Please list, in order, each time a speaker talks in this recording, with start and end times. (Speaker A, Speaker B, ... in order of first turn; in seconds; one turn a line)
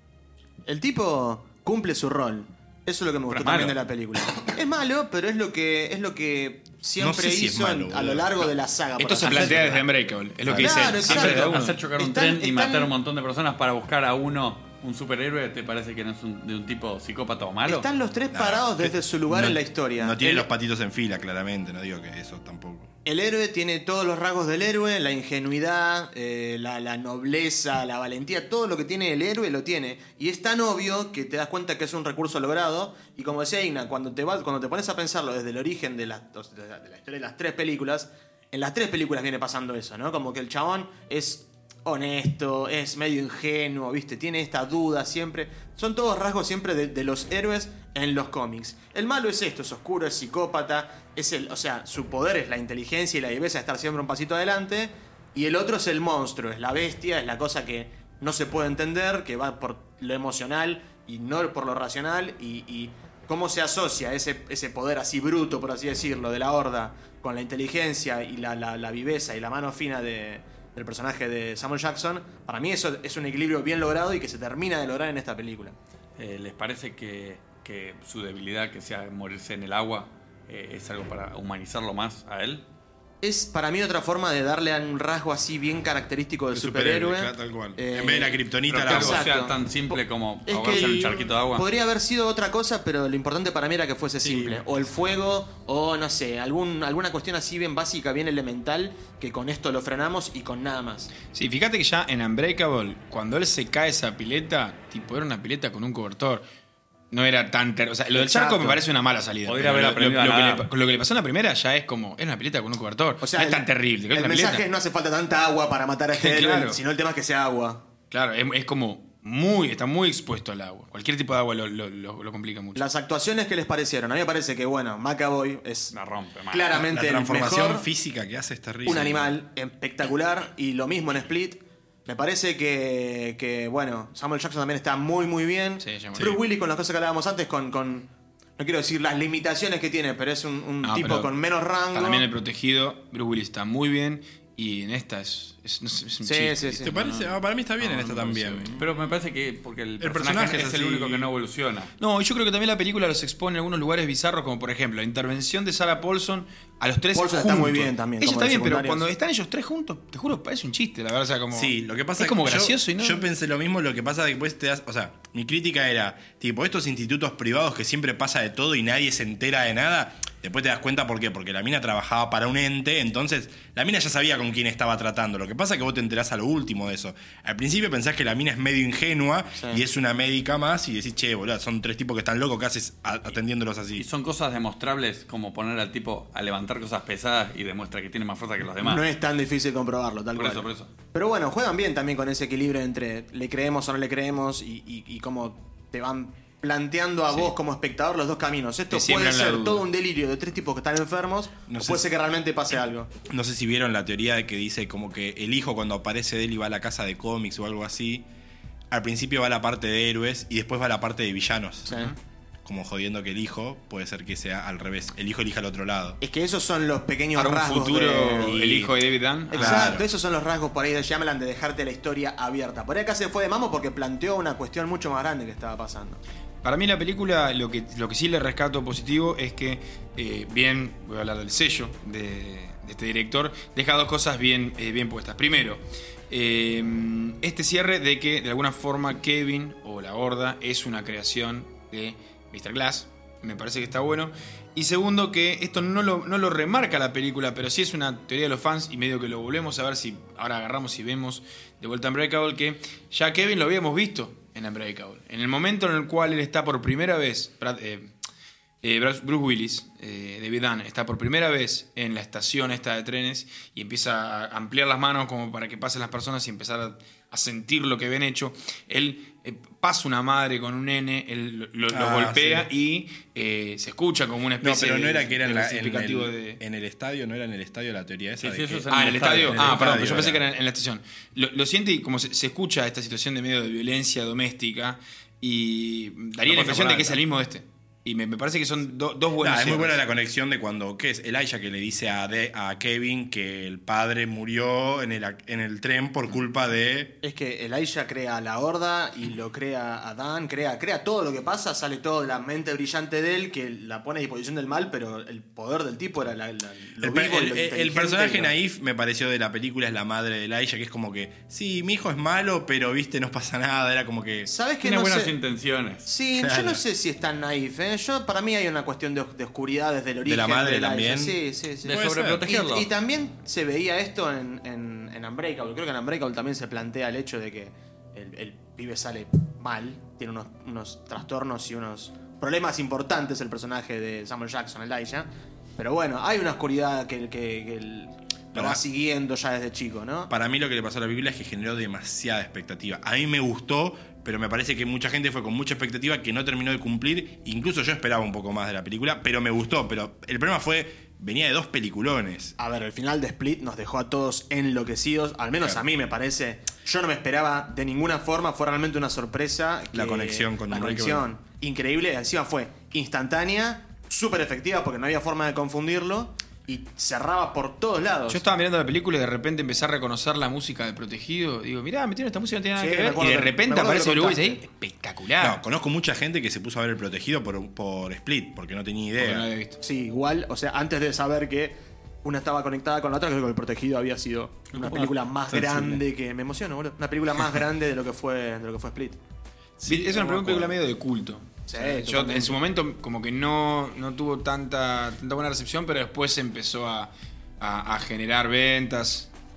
Speaker A: 0.7-9.8
Speaker B: 3.3-3.8
Speaker C: 7.0-8.5
Speaker D: 9.0-11.8
Speaker B: 9.2-9.8
Speaker C: 10.5-11.1
Speaker A: 10.5-12.9
Speaker B: 11.0-17.9
Speaker A: 17.6-20.5
Speaker C: 18.3-22.9
Speaker A: 23.0-75.8
Speaker B: 76.2-82.6
Speaker A: 83.2-101.1
Speaker C: 86.5-89.3
Speaker B: 88.7-91.7
Speaker C: 94.2-94.6
Speaker D: 101.3-106.4
Speaker D: 107.1-114.6
Speaker A: 108.1-108.8
Speaker B: 109.4-110.7
Speaker A: 113.2-117.8
Speaker D: 116.1-116.8
Speaker D: 118.1-122.8
Speaker A: 122.7-125.9
Speaker B: 125.9-126.7
Speaker A: 126.5-127.8
Speaker C: 126.7-129.3
Speaker A: 128.8-142.2
Speaker D: 135.8-136.4
Speaker D: 140.8-141.3
Speaker D: 141.9-148.8
Speaker A: 146.2-146.9
Speaker C: 146.8-148.9
Speaker B: 148.8-151.9
Speaker C: 150.0-151.2
Speaker D: 152.0-163.2
Speaker A: 157.1-159.0
Speaker C: 161.5-184.0
Speaker B: 183.9-189.0
Speaker A: 188.8-203.1
Speaker B: 190.3-190.9
Speaker D: 198.9-199.8
Speaker C: 201.7-202.1
Speaker C: 203.3-208.2
Speaker C: 208.9-212.0
Speaker C: 212.6-216.2
Speaker A: 216.2-218.9
Speaker D: 217.3-220.0
Speaker A: 219.5-226.2
Speaker C: 219.5-220.0
Speaker D: 226.6-258.1
Speaker D: 258.8-276.6
Speaker C: 271.9-272.7
Speaker C: 274.6-280.4
Speaker B: 278.4-280.2
Speaker D: 278.9-290.0
Speaker B: 286.5-287.2
Speaker C: 289.4-297.1
Speaker A: 297.2-308.5
Speaker C: 307.0-314.5
Speaker A: 314.4-315.3
Speaker B: 314.8-316.1
Speaker A: 316.0-340.3
Speaker C: 316.4-316.8
Speaker C: 320.2-322.4
Speaker B: 321.8-322.9
Speaker C: 338.5-338.8
Speaker C: 340.3-352.6
Speaker A: 352.6-368.4
Speaker C: 359.9-361.2
Speaker D: 368.3-375.6
Speaker A: 372.8-374.6
Speaker C: 375.4-379.5
Speaker D: 379.2-379.8
Speaker A: 379.8-389.2
Speaker B: 384.7-386.0
Speaker C: 389.8-390.7
Speaker D: 389.9-399.3
Speaker A: 389.9-390.6
Speaker A: 391.7-392.6